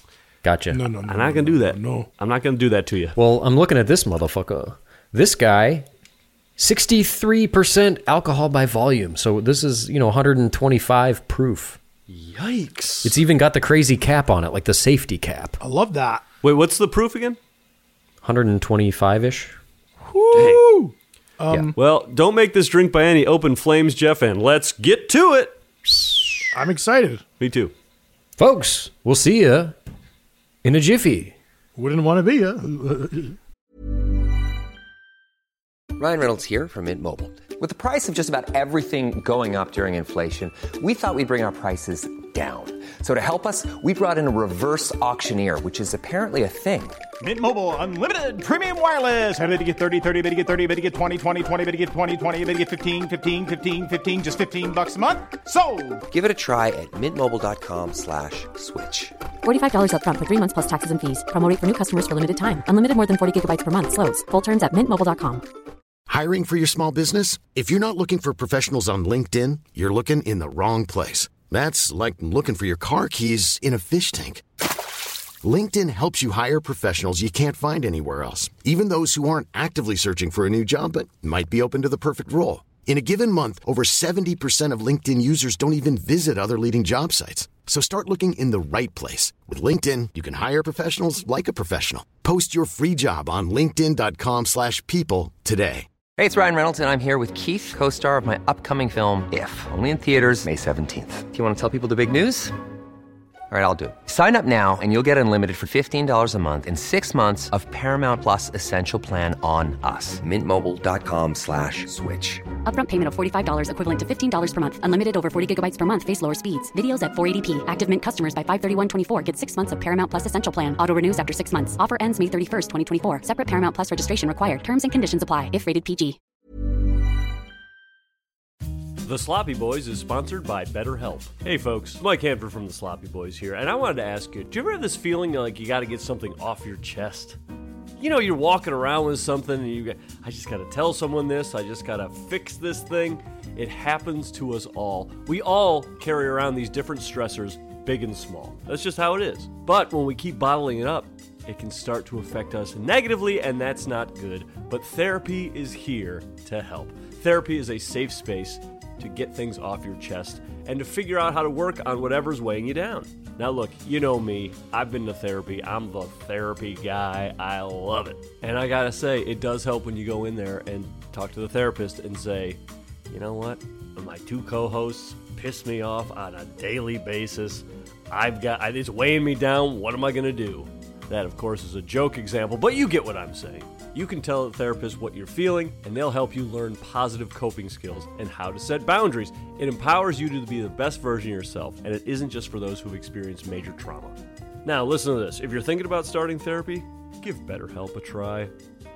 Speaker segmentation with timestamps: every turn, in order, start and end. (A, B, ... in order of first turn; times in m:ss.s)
0:00.4-0:00.8 A
0:00.7-0:02.1 B
0:01.1-0:03.2 C
0:03.2-0:05.8 A
0:06.6-0:11.8 A
0:12.1-0:13.2 C
0:13.0-0:15.6 A
0:15.6-0:16.2 B
0:16.4-0:17.4 C
0:18.2-0:19.6 A
0:20.0-0:21.7 B
0:20.3-0:20.6 C
0:21.8-0:25.6 C
0:26.5-0:27.2 B
0:27.4-0:27.7 C
0:28.4-0:29.8 A
0:30.6-0:31.3 A
0:31.8-0:33.4 B
0:36.0-0:47.0 D
0:47.2-0:56.0 E
0:56.1-0:59.2 D
0:59.4-1:05.4 F
1:06.1-1:14.4 G
1:15.4-1:35.9 G
1:36.2-1:42.5 D
1:43.5-1:52.4 D
1:52.6-2:06.2 F
2:09.0-2:17.4 C
2:18.0-3:18.5 C